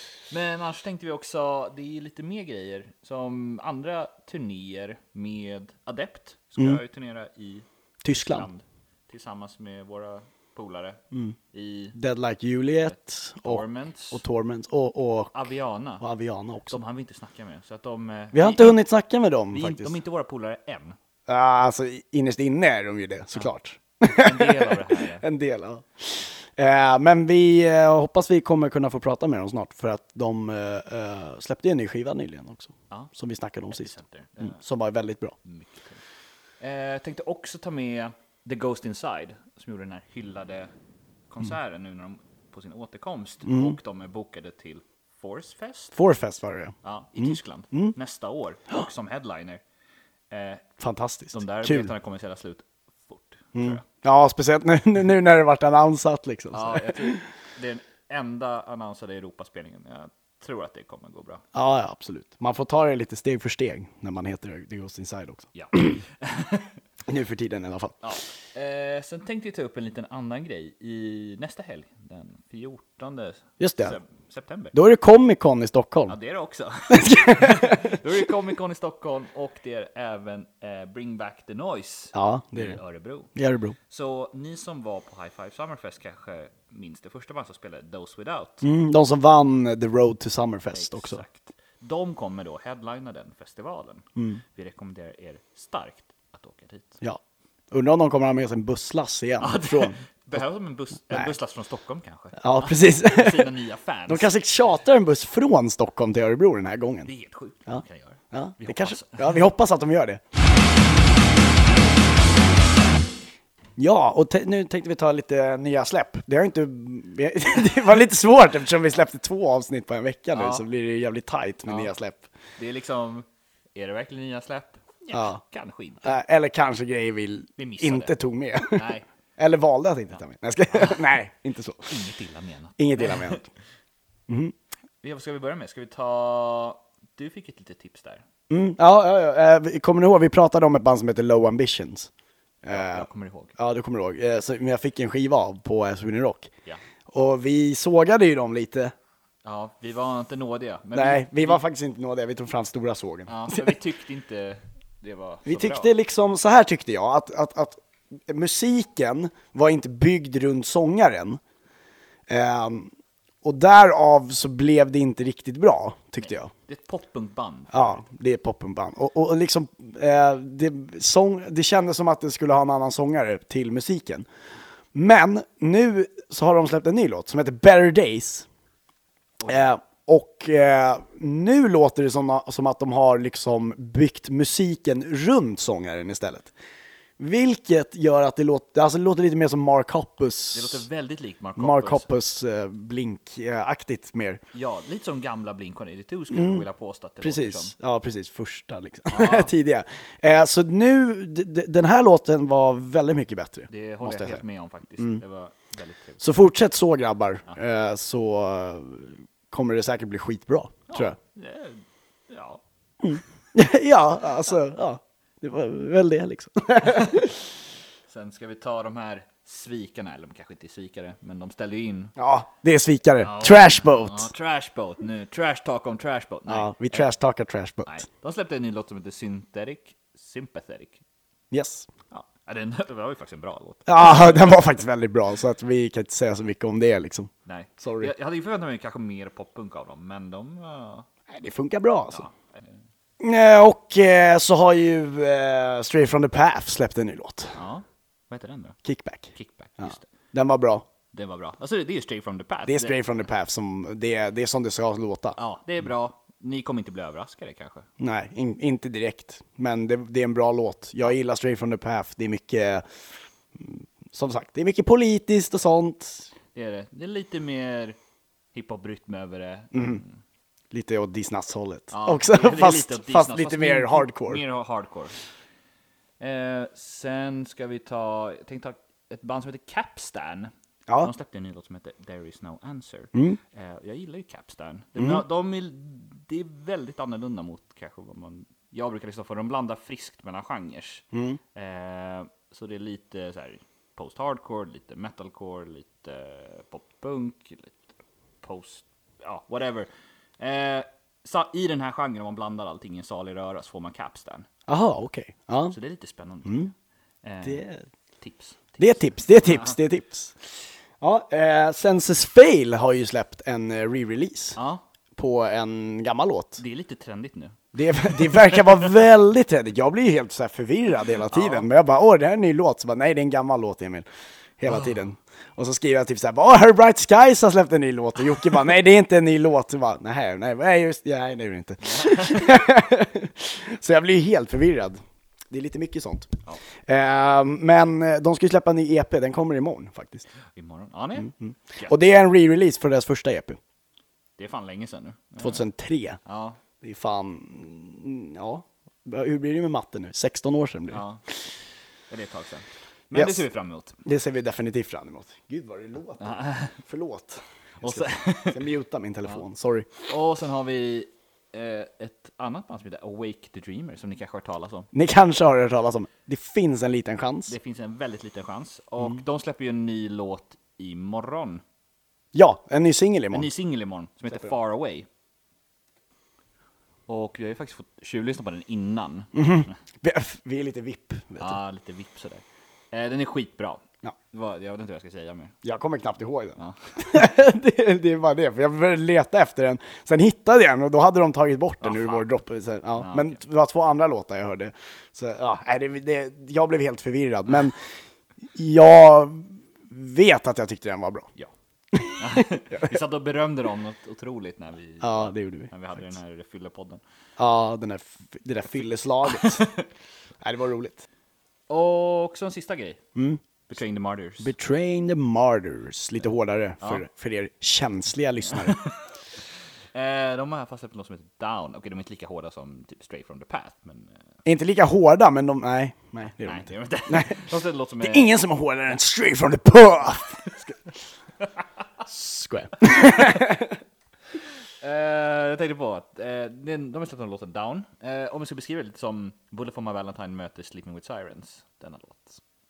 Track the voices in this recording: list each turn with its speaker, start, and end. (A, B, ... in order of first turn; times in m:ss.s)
0:00.3-0:11.0 A
0:06.6-0:06.8 B
0:08.0-0:08.5 B
0:11.5-0:12.0 A
0:12.0-0:15.3 B
0:12.8-0:14.2 A
0:15.3-0:16.0 A
0:16.0-0:16.8 B
0:16.7-0:18.8 A
0:18.3-0:19.9 B
0:19.5-0:21.0 A
0:21.3-0:35.4 B
0:24.1-0:25.2 A
0:33.7-0:34.6 A
0:35.5-0:36.0 A
0:36.6-0:40.7 A
0:41.3-0:45.9 A
0:43.5-0:43.8 B
0:45.9-0:47.9 B
0:46.8-0:49.6 A
0:50.3-0:50.7 A
0:50.8-0:51.9 B
0:51.3-0:53.8 A
0:53.6-0:57.2 B
0:56.5-1:01.4 A
1:01.5-1:06.0 B
1:05.6-1:06.7 A
1:07.1-1:08.0 B
1:08.0-1:14.8 A
1:13.6-1:14.0 B
1:14.7-1:16.2 B
1:16.1-1:23.3 A
1:16.9-1:17.9 B
1:22.1-1:22.8 B
1:23.4-1:23.8 B
1:23.9-1:28.7 A
1:28.6-1:31.2 B
1:30.7-1:37.0 A
1:37.7-1:40.0 B
1:39.4-1:44.3 A
1:42.4-1:43.5 B
1:44.1-1:47.1 B
1:47.1-1:49.4 A
1:48.3-1:50.2 B
1:53.8-2:02.2 B
2:00.3-2:00.6 A
2:01.7-2:01.9 A
2:02.6-2:06.1 A
2:05.1-2:05.4 B
2:06.0-2:08.8 B
2:07.6-2:08.1 A
2:08.7-2:09.1 A
2:09.4-2:11.9 B
2:10.7-2:11.0 A
2:11.9-2:13.4 A
2:12.8-2:13.5 B
2:14.3-2:14.5 B
2:15.0-2:18.2 A
2:18.5-2:22.1 B
2:22.6-2:23.1 B
2:22.7-2:23.5 A
2:23.6-2:26.5 B
2:27.1-2:28.9 B
2:29.4-2:31.6 A
2:30.9-2:33.7 B
2:33.3-2:35.9 A
2:35.5-2:41.4 B
2:42.3-2:42.9 B
2:43.4-2:46.5 B
2:46.2-2:48.0 A
2:47.7-2:54.3 B
2:54.9-2:58.5 B
2:59.4-3:06.5 B
3:07.2-3:10.8 B
3:10.5-3:12.1 A
3:11.6-3:14.4 B
3:14.5-3:17.7 A
3:16.3-3:16.6 B
3:17.2-3:24.4 B
3:19.1-3:19.5 A
3:23.7-3:26.2 A
3:26.2-3:31.2 B
3:30.9-3:32.6 A
3:33.0-3:37.4 B
3:38.1-3:42.1 A
3:42.2-3:44.3 B
3:43.2-3:47.0 A
3:46.5-3:48.0 B
3:47.9-3:51.0 A
3:51.5-3:51.9 B
3:52.1-3:54.7 A
3:53.9-3:58.1 B
3:57.5-4:01.1 A
4:01.3-4:02.3 B
4:02.1-4:02.8 A
4:03.2-4:07.6 B
4:07.6-4:08.8 A
4:08.8-4:10.8 B
4:09.4-4:10.1 A
4:11.1-4:13.0 A
4:12.7-4:15.4 B
4:15.4-4:17.9 A
4:18.0-4:22.9 B
4:23.6-4:26.3 B
4:26.6-4:28.0 A
4:28.5-4:30.2 A
4:29.7-4:30.0 B
4:30.7-4:34.4 B
4:31.9-4:35.2 A
4:36.2-4:57.8 A
4:51.1-4:51.4 B
4:58.4-5:04.5 A
5:04.7-5:05.8 B
5:05.7-5:06.7 A
5:06.4-5:06.7 B
5:07.2-5:07.6 A
5:07.4-5:07.8 B
5:08.2-5:09.8 A
5:08.8-5:10.3 B
5:11.0-5:14.6 B
5:14.6-5:14.8 A
5:15.2-5:16.6 B
5:16.6-5:17.6 A
5:17.7-5:24.0 B
5:18.1-5:18.9 A
5:21.3-5:21.7 A
5:24.6-5:36.3 B
5:24.7-5:24.9 A
5:31.9-5:32.4 A
5:36.9-5:40.3 B
5:40.5-5:41.9 A
5:41.4-5:43.6 B
5:44.4-5:45.6 A
5:45.4-5:46.2 B
5:46.3-5:46.6 A
5:46.8-5:51.0 B
5:50.9-5:51.2 A
5:52.1-5:54.0 A
5:53.2-5:53.4 B
5:54.0-5:59.9 B
5:56.2-5:56.8 A
5:57.8-5:58.6 A
6:00.1-6:04.9 A
6:04.9-6:07.6 B
6:07.5-6:11.6 A
6:12.3-6:13.5 B
6:13.3-6:15.1 A
6:17.1-6:19.7 A
6:19.4-6:21.6 B
6:21.4-6:25.5 A
6:25.6-6:37.8 B
6:31.8-6:32.2 A
6:33.0-6:33.4 A
6:38.6-6:41.3 B
6:41.9-6:42.9 B
6:42.1-6:47.0 A
6:45.0-6:45.7 B
6:47.4-6:49.6 B
6:49.4-6:49.8 A
6:50.4-6:51.0 B
6:51.7-6:53.0 A
6:53.7-6:54.5 A
6:54.4-6:58.8 B
6:59.9-7:04.2 A
7:04.5-7:07.4 B
7:06.4-7:08.3 A
7:08.0-7:10.8 B
7:12.1-7:13.8 B
7:14.8-7:22.4 A